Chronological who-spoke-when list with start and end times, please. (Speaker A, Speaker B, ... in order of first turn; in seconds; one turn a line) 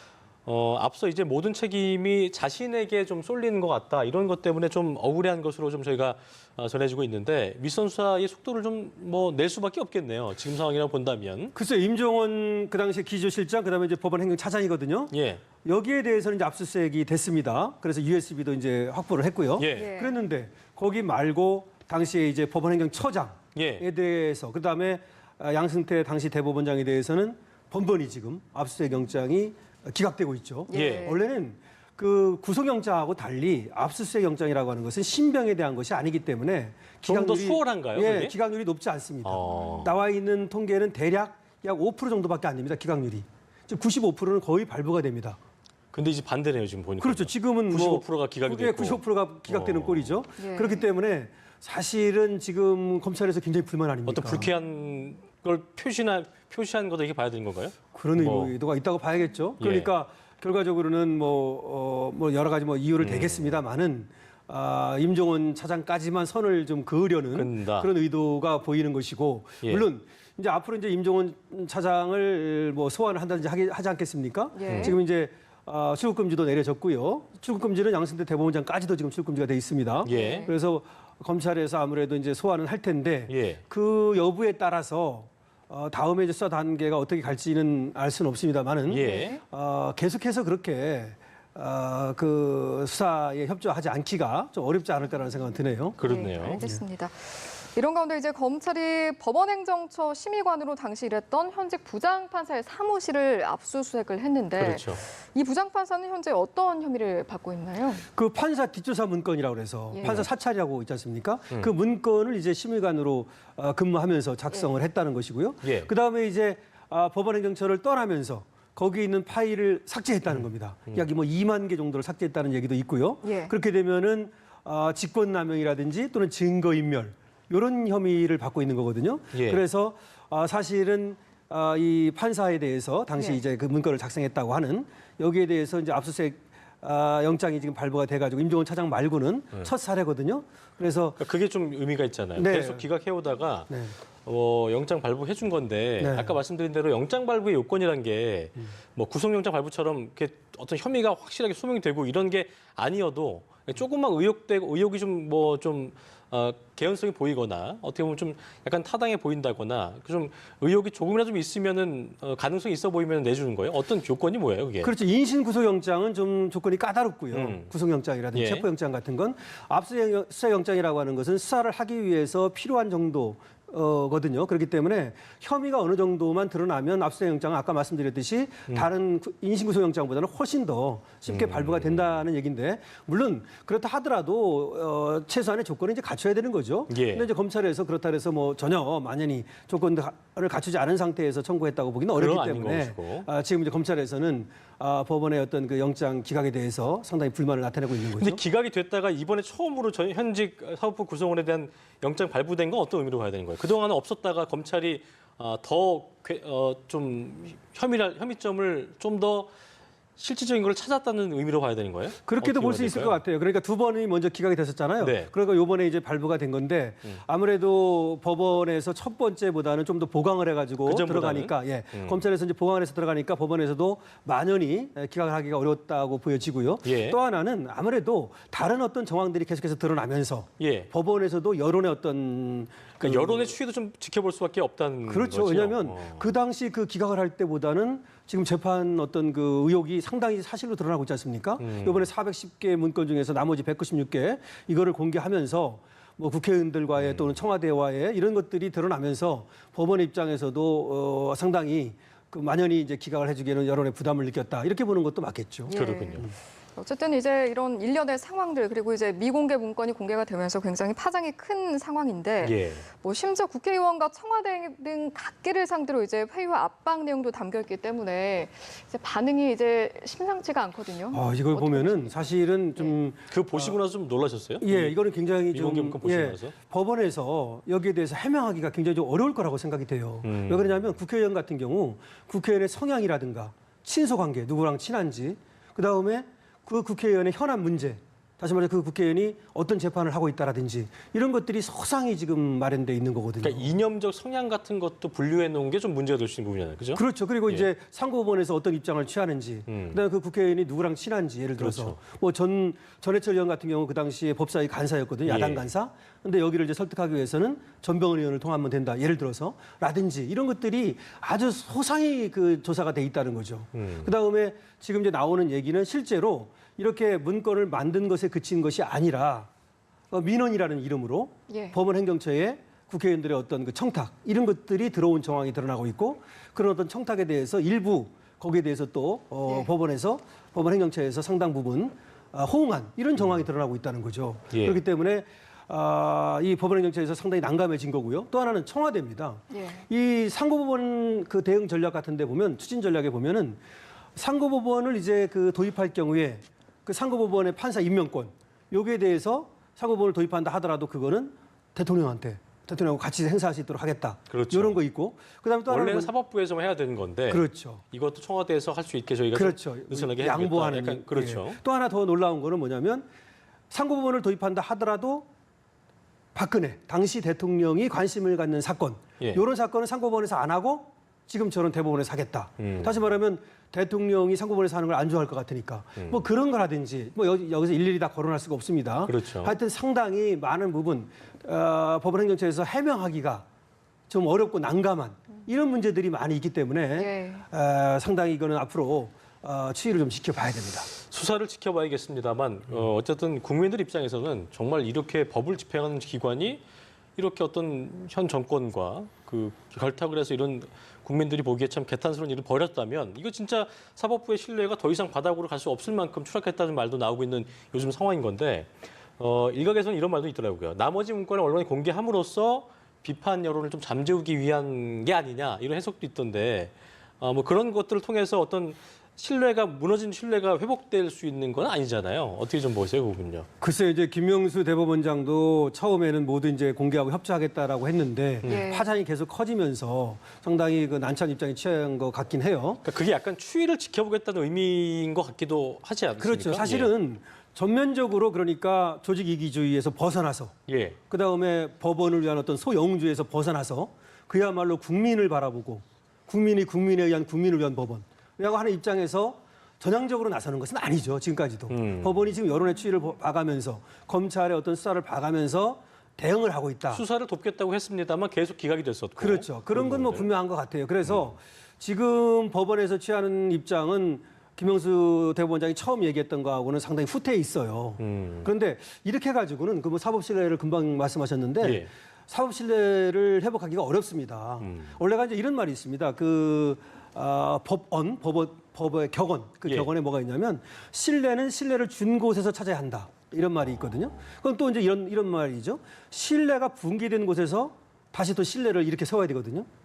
Speaker A: 0.5-11.6
Speaker B: 11.6-15.1
Speaker A: 15.1-15.4
Speaker B: 15.6-45.4
Speaker A: 19.6-19.9
Speaker C: 19.7-20.2
Speaker A: 23.5-23.9
Speaker C: 30.7-31.2
Speaker A: 30.7-31.1
Speaker A: 37.0-38.3
Speaker A: 39.2-39.9
Speaker C: 39.5-39.8
Speaker A: 45.9-50.2
Speaker B: 47.0-54.5
Speaker C: 50.4-50.9
Speaker A: 54.1-58.6
Speaker B: 57.9-96.8
Speaker A: 59.6-59.9
Speaker A: 63.0-63.6
Speaker A: 67.3-67.9
Speaker C: 74.5-75.0
Speaker A: 74.7-74.9
Speaker A: 80.0-80.5
Speaker C: 80.1-80.5
Speaker A: 83.3-83.6
Speaker A: 88.9-89.4
Speaker C: 89.0-89.4
Speaker A: 96.0-96.7
Speaker C: 96.0-108.0
Speaker A: 104.6-105.0
Speaker B: 108.2-141.2
Speaker C: 109.9-110.2
Speaker A: 115.6-115.9
Speaker A: 120.3-121.0
Speaker C: 123.2-123.5
Speaker A: 129.3-129.6
Speaker A: 141.2-143.7
Speaker B: 142.4-142.9
Speaker B: 143.7-143.9
Speaker A: 144.2-164.9
Speaker B: 146.0-146.4
Speaker B: 164.8-198.4
Speaker A: 167.3-167.7
Speaker A: 168.3-168.7
Speaker A: 181.3-182.2
Speaker A: 186.9-187.3
Speaker A: 192.1-193.3
Speaker A: 198.2-209.5
Speaker A: 210.2-213.2
Speaker B: 212.3-233.6
Speaker A: 215.0-215.3
Speaker A: 220.8-222.2
Speaker A: 226.8-227.2
Speaker A: 230.6-230.9
Speaker A: 233.0-236.2
Speaker B: 235.1-256.3
Speaker A: 241.6-242.1
Speaker A: 247.0-247.4
Speaker C: 255.7-273.0
Speaker A: 255.7-256.3
Speaker A: 262.4-262.9
Speaker B: 271.1-273.8
Speaker A: 273.3-275.0
Speaker B: 274.6-293.7
Speaker A: 275.5-276.5
Speaker A: 280.2-280.9
Speaker A: 293.4-297.7
Speaker B: 296.9-319.5
Speaker A: 299.7-300.0
Speaker A: 301.6-302.0
Speaker A: 305.2-305.7
Speaker A: 313.8-314.1
Speaker B: 320.1-343.6
Speaker C: 321.5-321.8
Speaker A: 334.5-334.8
Speaker C: 339.5-339.8
Speaker B: 344.2-356.1
Speaker A: 354.3-354.8
Speaker A: 355.7-361.6
Speaker B: 357.3-357.8
Speaker B: 359.3-363.1
Speaker B: 363.7-365.3
Speaker B: 366.4-383.4
Speaker A: 372.6-373.0
Speaker A: 379.1-379.6
Speaker B: 384.1-390.9
Speaker C: 387.0-387.4
Speaker A: 391.0-396.6
Speaker A: 397.2-423.5
Speaker B: 423.6-432.8
Speaker C: 428.4-428.9
Speaker A: 432.8-436.9
Speaker B: 436.2-440.5
Speaker A: 440.7-441.0
Speaker B: 441.1-457.0
Speaker A: 451.7-452.3
Speaker A: 456.9-460.3
Speaker B: 459.2-489.7
Speaker A: 461.1-461.3
Speaker A: 468.0-468.5
Speaker A: 471.6-471.9
Speaker A: 474.6-474.9